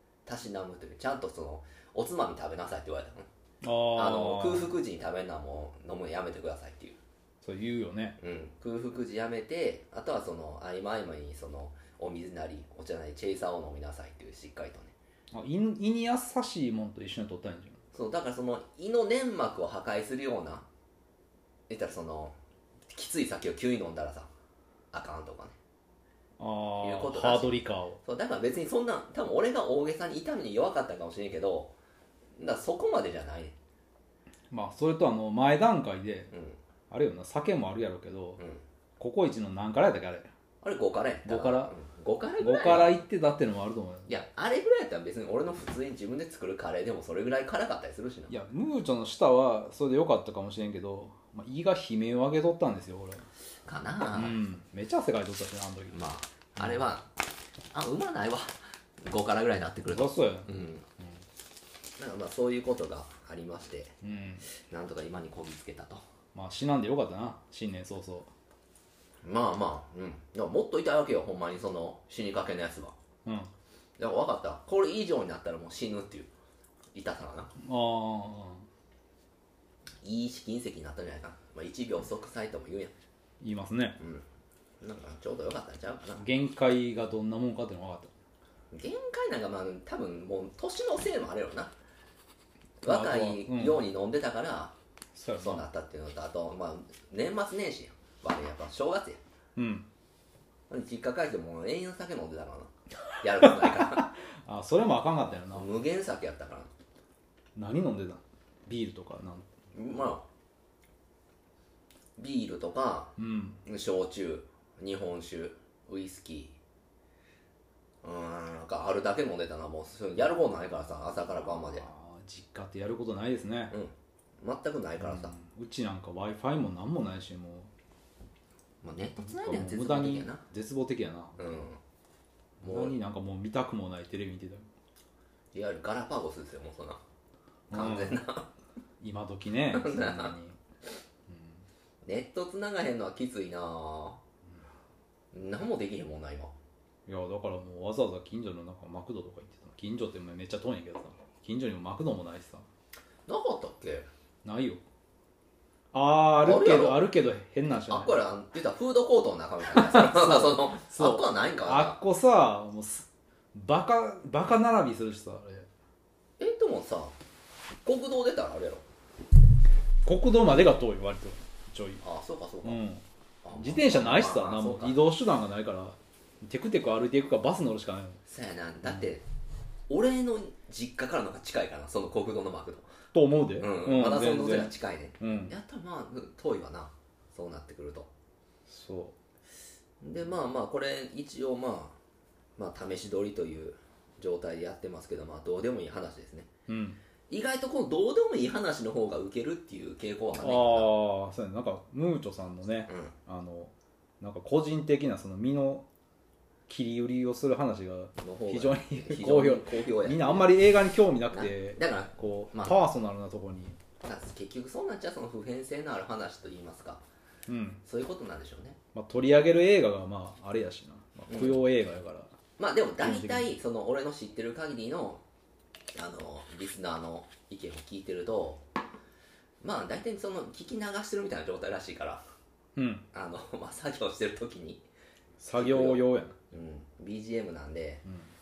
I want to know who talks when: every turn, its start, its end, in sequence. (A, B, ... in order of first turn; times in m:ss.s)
0:00.2-0:03.3 A
0:03.6-0:04.7 B
0:03.9-0:07.0 A
0:07.4-0:08.2 B
0:08.2-0:14.9 A
0:15.3-0:17.8 B
0:17.9-0:20.6 A
0:21.7-0:22.4 A
0:22.9-0:24.3 A
0:24.9-0:25.5 A
0:26.4-0:28.0 B
0:26.8-0:31.7 A
0:32.4-0:33.5 A
0:34.5-0:36.3 B
0:36.3-0:36.6 A
0:36.9-0:38.4 B
0:39.0-0:40.3 B
0:40.6-0:43.0 A
0:41.2-0:41.7 B
0:42.4-0:44.1 B
0:44.1-0:48.3 A
0:48.3-0:53.3 B
0:53.6-0:54.4 A
0:54.1-0:56.0 B
0:55.9-0:57.1 A
0:57.7-1:00.8 A
0:59.9-1:01.2 B
1:02.0-1:03.9 A
1:04.0-1:04.4 B
1:04.7-1:06.0 A
1:06.3-1:08.3 B
1:09.2-1:13.0 A
1:13.2-1:13.5 B
1:14.0-1:16.3 A
1:16.9-1:17.5 A
1:17.6-1:18.7 B
1:20.0-1:22.9 A
1:23.4-1:24.0 B
1:24.0-1:24.2 A
1:24.8-1:26.2 A
1:26.2-1:28.1 B
1:28.7-1:31.7 A
1:32.8-1:34.7 A
1:32.8-1:33.8 B
1:35.1-1:35.6 B
1:35.4-1:39.2 A
1:39.6-1:39.9 B
1:40.7-1:44.1 A
1:43.4-1:45.7 B
1:45.5-1:46.7 A
1:47.6-1:50.1 B
1:49.7-1:50.2 A
1:52.2-1:56.6 A
1:53.2-1:53.6 B
1:58.0-2:01.9 A
2:01.2-2:03.7 B
2:03.7-2:05.4 A
2:05.0-2:07.7 B
2:08.8-2:10.4 A
2:09.2-2:11.5 B
2:11.4-2:11.8 A
2:12.6-2:13.0 A
2:12.6-2:14.7 B
2:15.5-2:17.0 A
2:17.7-2:18.2 B
2:17.7-2:18.5 A
2:19.0-2:20.6 B
2:19.7-2:20.3 A
2:21.3-2:21.6 B
2:22.0-2:24.2 A
2:25.3-2:26.5 A
2:27.1-2:32.7 B
2:33.3-2:34.1 A
2:34.4-2:34.8 B
2:35.9-2:38.2 B
2:36.4-2:37.0 A
2:37.8-2:42.0 A
2:39.6-2:45.7 B
2:46.4-2:47.2 A
2:47.8-2:48.8 A
2:50.0-2:52.0 B
2:52.0-2:52.8 A
2:52.6-2:53.0 B
2:53.4-2:55.0 A
2:53.5-2:58.2 B
2:58.2-2:59.2 A
2:59.9-3:02.9 A
3:03.1-3:05.5 B
3:03.6-3:08.1 A
3:08.7-3:09.1 B
3:10.0-3:12.0 A
3:12.6-3:16.5 A
3:16.7-3:17.0 B
3:17.3-3:21.0 A
3:20.4-3:25.8 B
3:22.9-3:23.1 A
3:26.7-3:33.8 B
3:28.2-3:30.5 A
3:31.3-3:32.8 A
3:34.0-3:37.0 A
3:37.5-3:37.8 B
3:37.8-3:38.8 A
3:38.9-3:42.3 B
3:41.3-3:41.6 A
3:42.6-3:45.2 A
3:43.0-3:43.5 B
3:45.9-3:48.6 A
3:49.6-3:52.2 A
3:52.8-3:53.0 B
3:53.1-3:54.8 A
3:55.4-3:56.4 B
3:55.5-3:58.0 A
3:58.0-3:58.3 B